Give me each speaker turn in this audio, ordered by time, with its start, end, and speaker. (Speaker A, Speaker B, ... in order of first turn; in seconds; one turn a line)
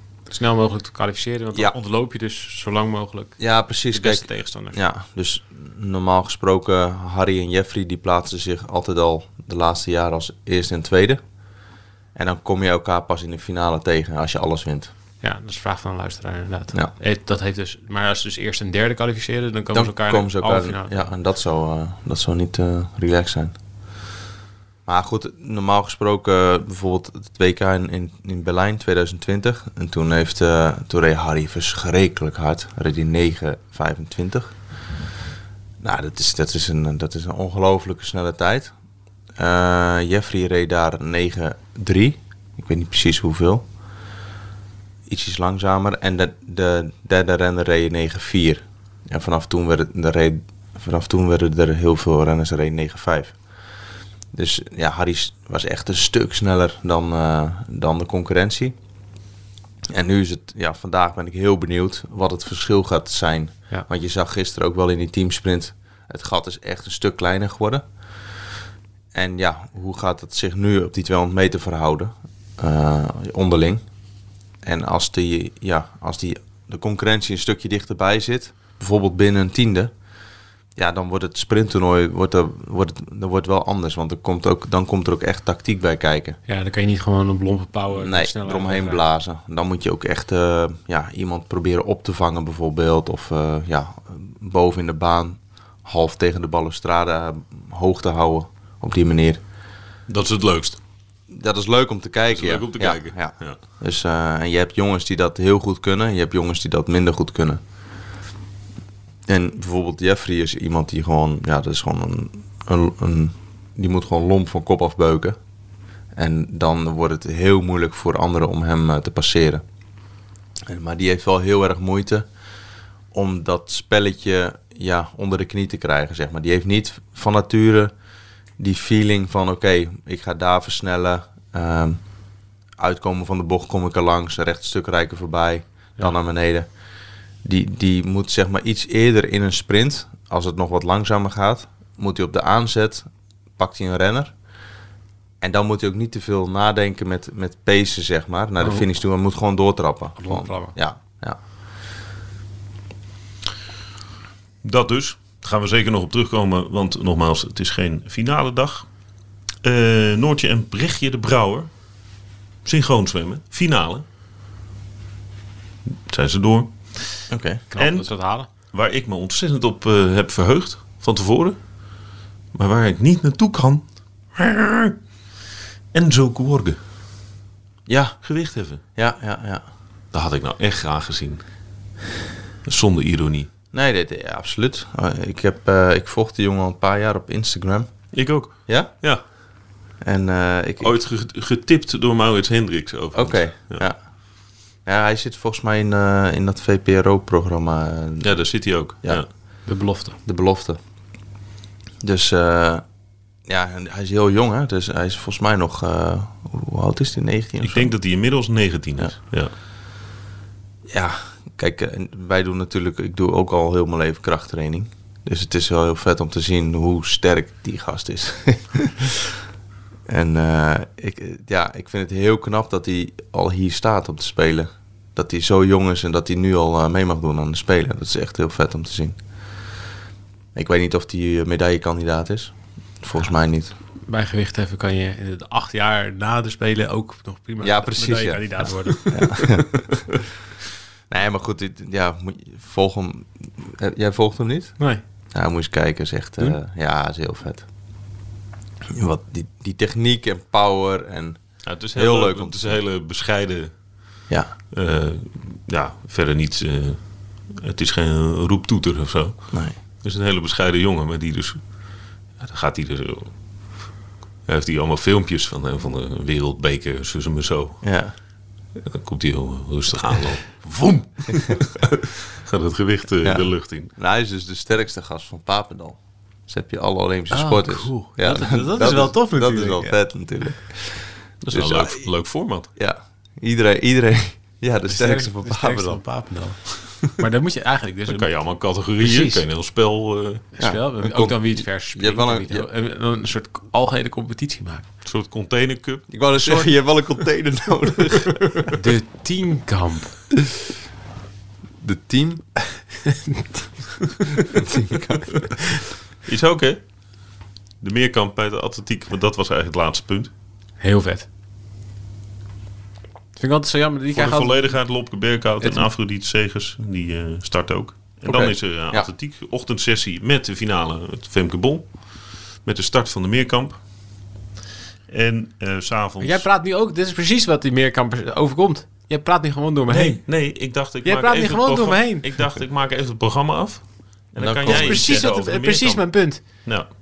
Speaker A: 0.3-4.8
Speaker B: 3.4-11.2
Speaker B: 12.1-14.9
Speaker A: 15.2-21.1
Speaker B: 19.7-23.6
Speaker B: 24.9-34.5
Speaker B: 35.8-38.7
Speaker B: 39.4-43.6
Speaker B: 45.1-53.3
Speaker B: 54.3-58.8
Speaker B: 59.9-67.8
Speaker B: 69.1-73.8
Speaker B: 74.6-79.9
Speaker B: 80.8-86.4
Speaker A: 86.5-89.1
Speaker B: 87.9-99.4
Speaker C: 100.1-100.8
Speaker B: 101.3-107.6
Speaker C: 102.3-103.6
Speaker B: 109.3-115.4
Speaker B: 116.1-119.6
Speaker B: 120.6-122.3
Speaker B: 123.1-127.9
Speaker B: 128.6-132.0
Speaker B: 132.8-136.7
Speaker B: 137.4-144.3
Speaker B: 145.4-151.4
Speaker A: 148.6-148.9
Speaker A: 150.2-150.8
Speaker C: 154.6-158.9
Speaker C: 159.6-161.7
Speaker C: 162.6-164.0
Speaker C: 165.9-167.2
Speaker B: 167.3-167.6
Speaker A: 167.7-168.5
Speaker C: 167.8-171.6
Speaker C: 172.5-174.9
Speaker C: 175.9-176.8
Speaker B: 177.9-178.2
Speaker C: 178.2-178.8
Speaker B: 178.9-179.6
Speaker C: 180.1-181.4
Speaker C: 182.6-183.5
Speaker B: 183.7-187.9
Speaker C: 188.1-189.2
Speaker B: 188.7-188.9
Speaker B: 190.0-190.9
Speaker C: 190.8-193.8
Speaker B: 193.1-194.0
Speaker B: 194.8-199.2
Speaker C: 198.2-199.3
Speaker A: 199.7-200.2
Speaker B: 200.2-200.8
Speaker B: 202.0-202.8
Speaker B: 203.4-207.9
Speaker C: 207.6-209.5
Speaker B: 210.9-219.2
Speaker B: 220.1-229.2
Speaker B: 230.5-233.7
Speaker A: 234.1-239.5
Speaker B: 237.6-240.2
Speaker B: 241.1-244.8
Speaker B: 245.3-247.7
Speaker B: 248.9-251.4
Speaker C: 251.7-253.7
Speaker B: 251.9-252.8
Speaker C: 254.7-257.0
Speaker C: 257.5-261.6
Speaker C: 262.4-263.3
Speaker C: 264.5-267.8
Speaker B: 267.8-268.1
Speaker C: 268.8-273.9
Speaker B: 273.2-282.1
Speaker A: 277.3-280.0
Speaker C: 281.4-282.7
Speaker B: 282.8-286.0
Speaker A: 284.9-288.3
Speaker C: 288.1-290.5
Speaker A: 289.0-289.4
Speaker A: 290.6-294.9
Speaker B: 290.6-292.7
Speaker C: 295.0-296.1
Speaker B: 296.1-298.8
Speaker A: 298.7-300.1
Speaker B: 301.8-302.5
Speaker A: 303.1-303.5
Speaker B: 304.5-305.5
Speaker C: 306.2-306.8
Speaker C: 307.8-310.3
Speaker A: 310.8-311.3
Speaker A: 313.4-314.8
Speaker C: 314.1-323.8
Speaker A: 315.6-315.9
Speaker B: 318.2-319.1
Speaker C: 325.1-326.4
Speaker A: 326.2-330.3
Speaker C: 329.9-336.9
Speaker A: 331.0-332.3
Speaker B: 334.4-335.2
Speaker A: 334.6-336.7